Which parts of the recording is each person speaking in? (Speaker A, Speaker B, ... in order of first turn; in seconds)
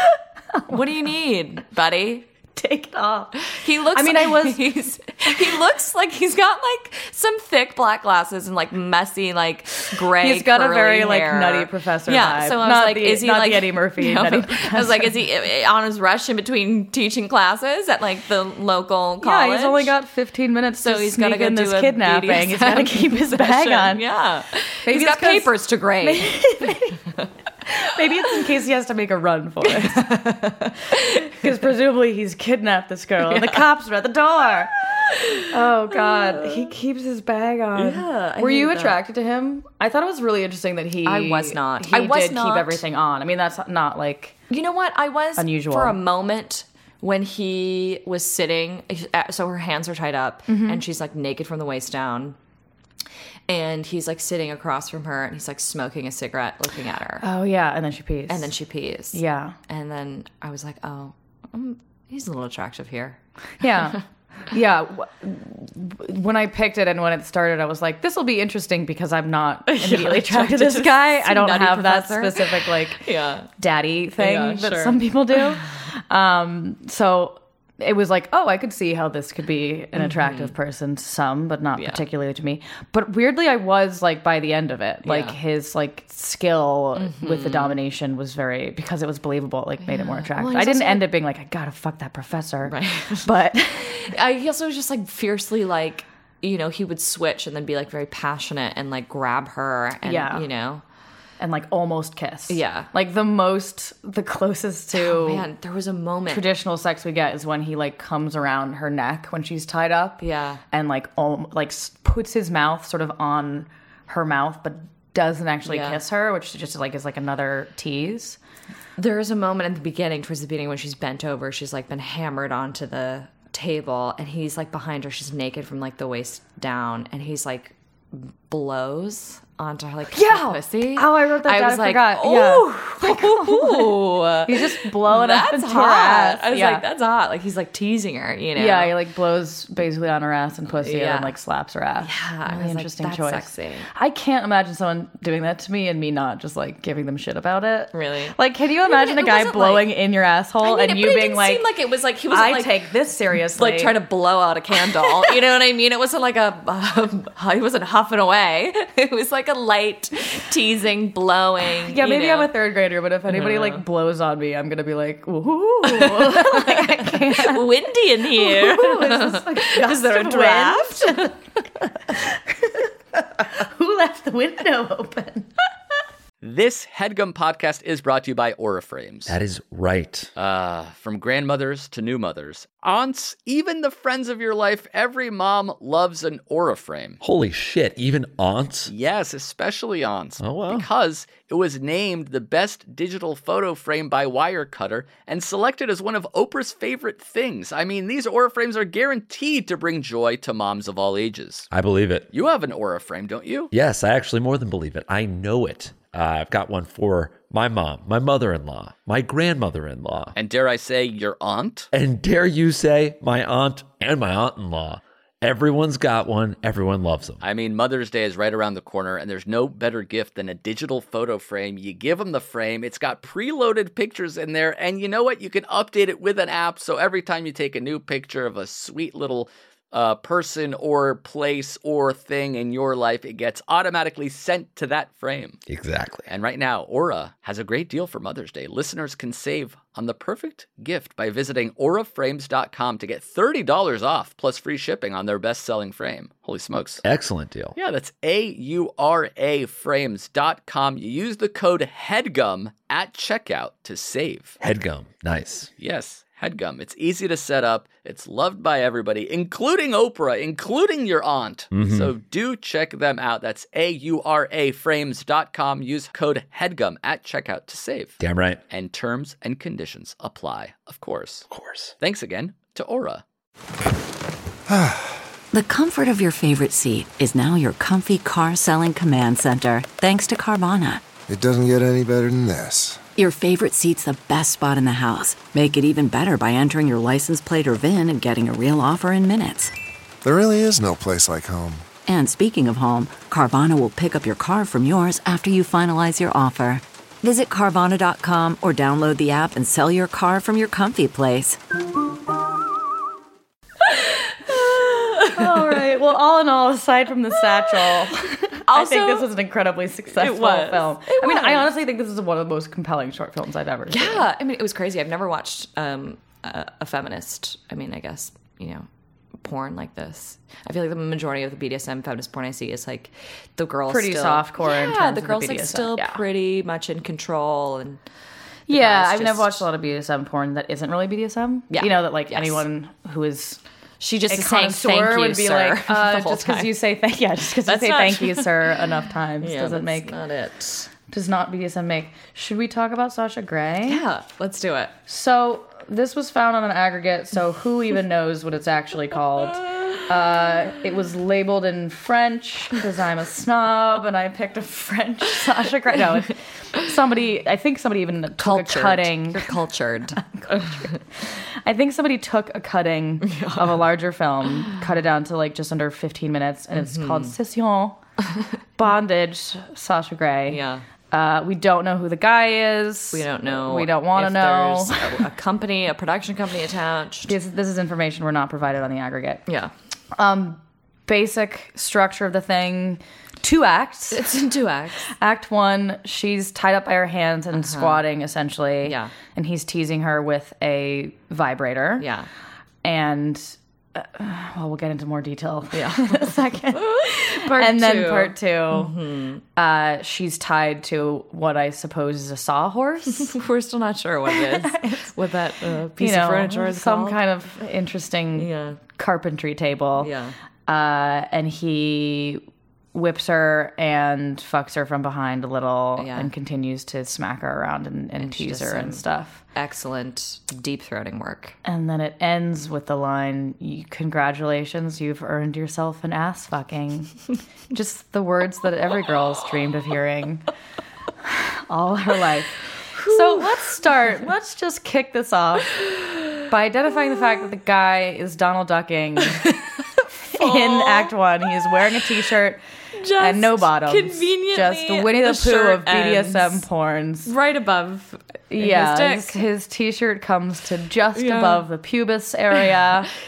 Speaker A: 0.5-0.8, 2.5-4.6, 10.2-15.1, 19.2-24.0, 24.9-25.5, 26.0-27.0, 27.7-30.5, 31.1-34.7, 35.4-44.4, 45.4-46.0, 50.5-50.8, 57.2-58.5, 59.1-59.5, 63.6-73.0, 73.6-94.1, 100.0-100.4, 101.4-105.5, 106.3-118.4, 130.1-136.8, 138.6-151.6, 152.3-153.9, 161.8-167.7, 168.3-175.5, 305.2-314.3, 323.9-326.2, 328.7-333.6, 334.3-340.1, 341.1-344.0, 345.1-359.5, 360.2-368.0, 368.8-375.2, 377.2-379.4, 380.1-384.3, 385.1-392.1, 392.8-398.9, 399.6-403.3, 404.3-405.1, 406.0-410.1, 410.7-412.4, 412.9-419.4, 421.6-427.1, 427.7-430.4, 431.2-435.8, 436.4-439.6, 440.3-442.6, 443.2-447.3, 448.5-453.1
Speaker B: 0.7-2.2, 3.5-19.9, 20.8-27.2, 29.6-31.4, 33.3-33.6, 35.0-36.7, 37.8-39.0, 41.0-42.8, 44.5-52.4, 53.5-57.2, 58.3-63.2, 69.7-73.5, 74.2-75.7, 80.0-80.5, 85.0-85.3, 87.0-87.7, 89.8-91.1, 92.7-100.8, 102.5-102.9, 104.9-106.4, 110.2-110.6, 115.7-116.0, 119.0-138.9, 140.8-141.3, 142.0-143.9, 147.9-149.9, 150.6-152.8, 153.5-162.5, 163.3-163.8, 165.8-171.3, 303.9-305.8, 308.7-309.3, 310.1-311.7, 313.9-318.9, 319.4-328.0, 328.7-329.6, 331.7-332.6, 334.0-336.7, 337.6-338.8, 339.4-340.9, 343.9-344.9, 358.4-360.9, 363.2-363.8, 366.7-367.3, 370.5-370.8, 373.1-377.3, 379.5-379.7, 384.1-385.1, 387.6-388.0, 388.8-389.1, 392.0-392.3, 395.7-399.4, 403.1-407.2, 408.4-408.8, 410.0-410.3, 416.0-416.3, 418.2-419.0, 419.5-421.6, 432.9-433.7, 440.3-441.1, 442.9-446.6, 447.2-449.4, 451.1-451.6
Speaker C: 176.4-179.3, 180.3-187.2, 188.9-201.7, 202.3-203.7, 210.3-211.9, 217.4-235.6, 236.3-247.0, 247.8-254.6, 255.8-268.2, 268.7-271.4, 272.0-273.2
Speaker D: 179.3-180.3, 187.2-188.9, 190.4-190.9, 201.7-202.3, 203.7-210.3, 211.9-217.4, 235.7-236.2, 247.0-247.8, 254.6-255.7, 261.7-262.1, 268.2-268.6, 271.5-271.9
Speaker E: 274.7-275.1, 281.3-283.0, 290.2-291.9
Speaker F: 275.5-281.0, 283.2-289.7, 292.0-301.6